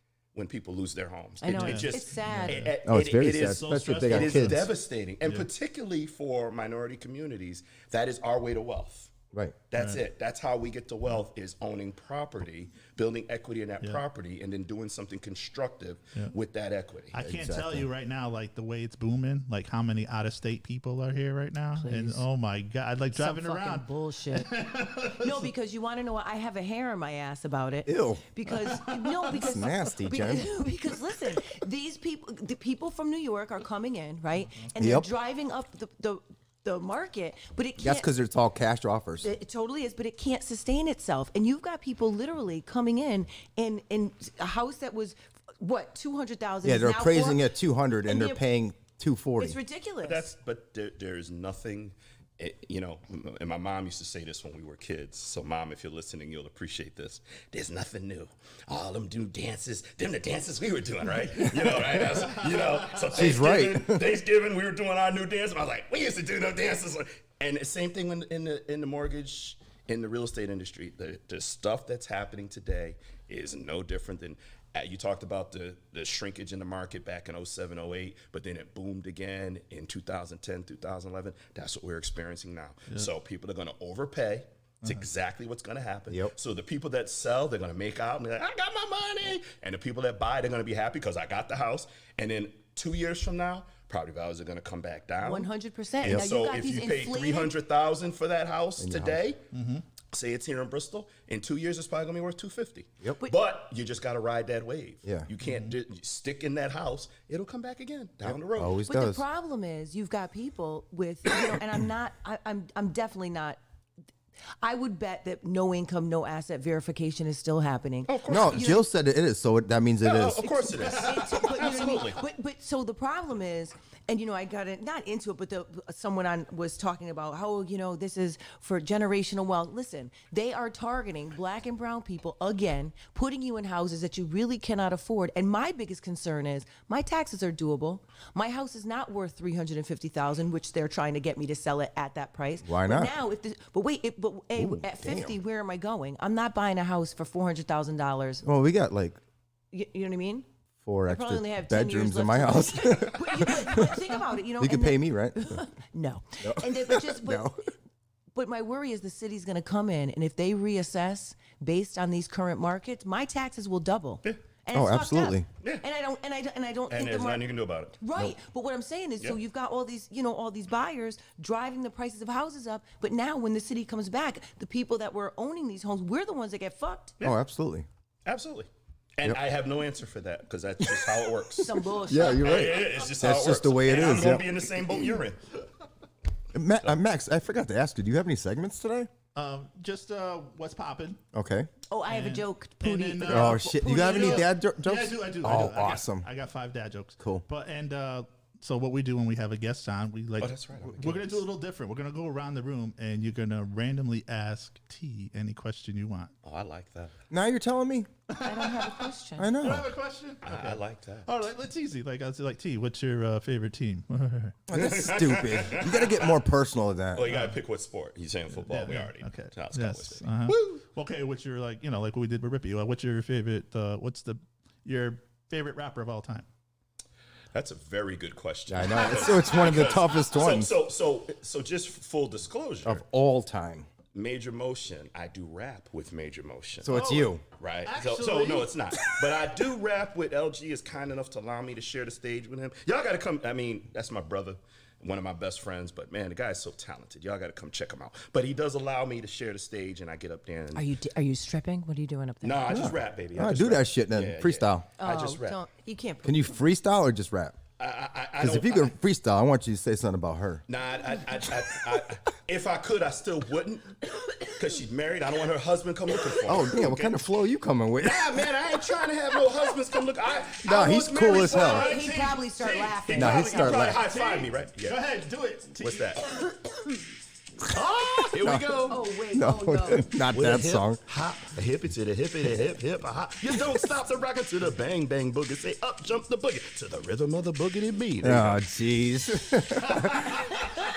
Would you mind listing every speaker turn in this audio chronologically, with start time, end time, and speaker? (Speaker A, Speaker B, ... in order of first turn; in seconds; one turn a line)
Speaker A: 0.3-9.1
Speaker B: 1.4-2.7
Speaker C: 1.5-2.7
Speaker D: 2.9-4.7
Speaker C: 3.4-4.7
Speaker A: 9.7-17.2
Speaker C: 17.1-25.5
Speaker D: 17.2-17.9
Speaker B: 21.8-22.3
Speaker B: 23.1-24.5
Speaker B: 25.2-38.1
Speaker D: 27.9-28.2
Speaker C: 28.5-29.3
Speaker D: 29.3-30.5
Speaker D: 34.8-35.1
Speaker D: 37.8-39.3
Speaker B: 39.2-47.5
Speaker D: 46.6-49.6
Speaker B: 48.1-48.4
Speaker B: 49.4-50.3
Speaker A: 50.0-99.4
Speaker C: 62.2-63.1
Speaker D: 63.1-64.1
Speaker B: 95.2-97.5
Speaker D: 98.8-99.2
Speaker C: 99.5-99.8
Speaker A: 100.1-108.8
Speaker C: 105.4-105.8
Speaker D: 108.2-109.2
Speaker B: 108.9-113.6
Speaker B: 114.6-118.8
Speaker A: 118.1-118.8
Speaker D: 118.3-120.5
Speaker A: 120.0-122.2
Speaker B: 120.4-148.5
Speaker C: 120.8-121.3
Speaker D: 142.6-143.1
Speaker D: 144.6-145.3
Speaker D: 148.4-149.2
Speaker B: 149.7-150.5
Speaker D: 150.8-155.7
Speaker B: 151.1-157.5
Speaker D: 156.4-157.6
Speaker B: 158.3-177.2
Speaker D: 164.7-165.5
Speaker A: 166.9-168.0
Speaker D: 177.2-177.9
Speaker A: 178.3-185.4
Speaker D: 180.9-181.5
Speaker B: 181.6-182.7
Speaker D: 182.1-185.0
Speaker D: 186.5-189.1
Speaker C: 189.3-191.2
Speaker D: 191.3-191.7
Speaker B: 191.9-194.5
Speaker C: 192.1-206.3
Speaker D: 193.2-196.3
Speaker A: 200.4-201.4
Speaker A: 206.4-207.1
Speaker D: 207.3-208.1
Speaker C: 208.3-209.1
Speaker B: 208.4-209.5
Speaker D: 209.4-209.9
Speaker C: 209.6-214.6
Speaker A: 210.4-211.3
Speaker D: 214.7-217.3
Speaker A: 214.7-216.4
Speaker A: 217.1-220.8
Speaker C: 217.3-217.6
Speaker C: 218.6-226.5
Speaker A: 227.5-233.0
Speaker D: 228.7-230.7
Speaker D: 232.8-233.9
Speaker A: 234.1-237.0
Speaker D: 236.8-237.4
Speaker C: 236.9-239.0
Speaker A: 237.6-250.9
Speaker B: 250.8-253.0
Speaker A: 252.4-255.6
Speaker D: 252.7-254.9
Speaker B: 255.0-256.6
Speaker D: 256.2-257.6
Speaker A: 257.8-258.9
Speaker D: 258.4-260.6
Speaker A: 260.7-267.3
Speaker D: 266.4-268.5
Speaker A: 268.0-275.0
Speaker D: 270.6-271.9
Speaker B: 271.7-273.9
Speaker C: 271.7-272.9
Speaker D: 273.1-274.0
Speaker C: 273.6-276.2
Speaker A: 275.8-276.2
Speaker A: 277.7-279.0
Speaker D: 278.3-281.0
Speaker B: 278.9-280.2
Speaker A: 279.9-288.6
Speaker D: 288.2-290.5
Speaker C: 289.8-290.7